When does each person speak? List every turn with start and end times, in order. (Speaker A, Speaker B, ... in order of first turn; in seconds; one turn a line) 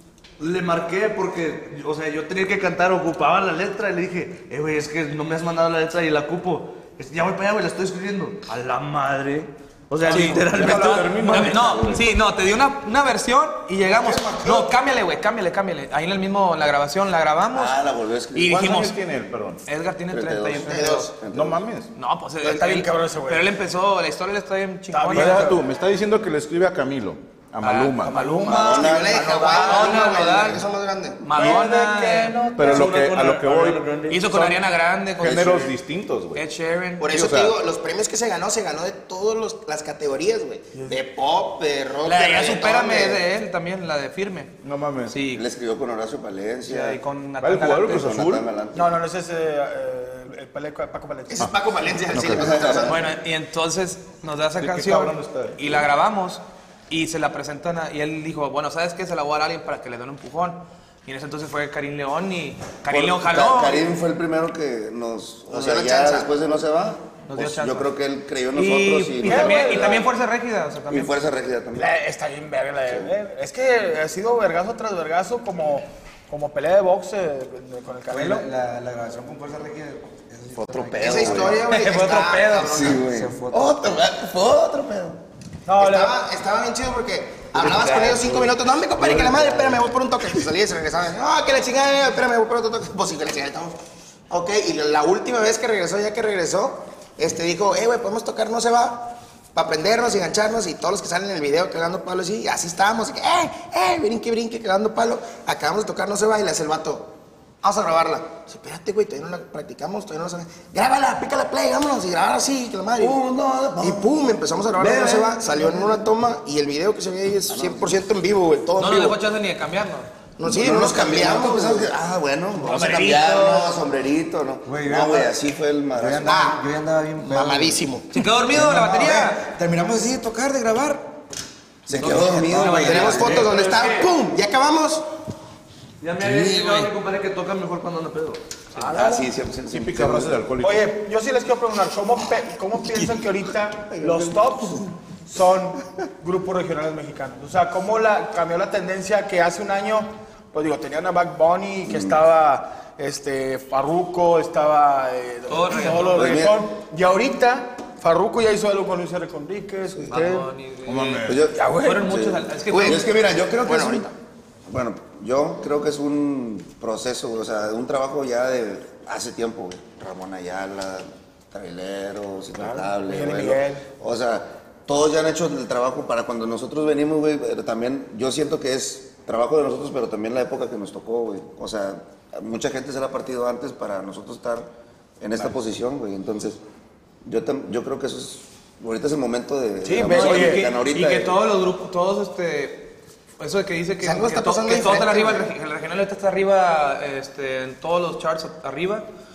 Speaker A: 0.4-11.6
Speaker B: 10.1-17.8
Speaker C: 10.1-12.1
Speaker D: 13.8-14.7
Speaker D: 17.5-18.6
Speaker B: 18.4-19.0
Speaker C: 18.5-19.6
Speaker B: 19.7-21.1
Speaker D: 20.1-21.6
Speaker E: 20.6-21.1
Speaker C: 21.3-21.9
Speaker B: 22.0-25.4
Speaker F: 22.4-23.4
Speaker F: 24.9-25.6
Speaker C: 25.1-28.2
Speaker B: 27.6-30.6
Speaker F: 28.1-28.7
Speaker E: 28.5-31.2
Speaker D: 28.5-29.6
Speaker F: 29.2-29.7
Speaker B: 31.2-33.3
Speaker F: 31.4-32.9
Speaker C: 32.6-34.6
Speaker A: 32.7-34.2
Speaker B: 34.1-35.8
Speaker C: 35.2-36.5
Speaker B: 36.3-37.0
Speaker E: 37.0-43.2
Speaker C: 37.1-37.6
Speaker B: 42.0-44.5
Speaker C: 44.6-45.1
Speaker B: 45.1-45.5
Speaker D: 45.3-47.0
Speaker B: 46.7-48.1
Speaker C: 47.4-48.5
Speaker D: 47.9-48.8
Speaker F: 48.7-51.5
Speaker E: 51.3-53.1
Speaker C: 52.1-52.7
Speaker D: 52.2-53.0
Speaker B: 52.9-63.9
Speaker C: 54.6-55.6
Speaker D: 62.9-70.0
Speaker E: 65.5-66.3
Speaker B: 67.3-67.9
Speaker B: 68.5-71.2
Speaker F: 69.2-70.1
Speaker D: 70.9-71.9
Speaker F: 71.7-78.5
Speaker G: 78.1-81.6
Speaker C: 80.6-81.0
Speaker D: 81.0-81.6
Speaker E: 81.0-83.0
Speaker B: 81.6-82.9
Speaker D: 82.6-85.2
Speaker G: 82.9-84.0
Speaker F: 85.7-86.1
Speaker E: 85.8-93.8
Speaker A: 87.8-88.3
Speaker G: 89.4-89.8
Speaker E: 94.3-113.2
Speaker D: 113.0-114.2
Speaker E: 113.8-119.2
Speaker D: 114.7-115.8
Speaker D: 117.5-118.1
Speaker B: 118.8-120.1
Speaker E: 120.4-122.0
Speaker D: 120.4-126.5
Speaker B: 122.6-123.8
Speaker G: 124.7-125.4
Speaker G: 125.9-127.9
Speaker E: 126.2-126.6
Speaker E: 127.2-128.1
Speaker B: 128.1-129.4
Speaker G: 128.4-131.1
Speaker D: 131.9-133.4
Speaker G: 131.9-133.5
Speaker A: 132.5-134.1
Speaker E: 132.7-135.1
Speaker A: 136.0-138.4
Speaker D: 136.2-136.9
Speaker F: 138.8-139.3
Speaker D: 138.8-140.4
Speaker C: 139.7-140.9
Speaker F: 140.6-160.5
Speaker D: 144.0-144.2
Speaker D: 151.9-152.2
Speaker B: 155.5-156.4
Speaker D: 156.1-156.6
Speaker B: 160.1-163.1
Speaker C: 160.8-161.5
Speaker D: 161.2-164.1
Speaker F: 161.6-161.9
Speaker E: 162.7-164.1
Speaker D: 164.7-184.7
Speaker F: 172.6-173.8
Speaker D: 185.2-186.6
Speaker D: 187.2-191.4
Speaker F: 189.8-190.7
Speaker B: 190.0-199.1
Speaker E: 194.0-195.5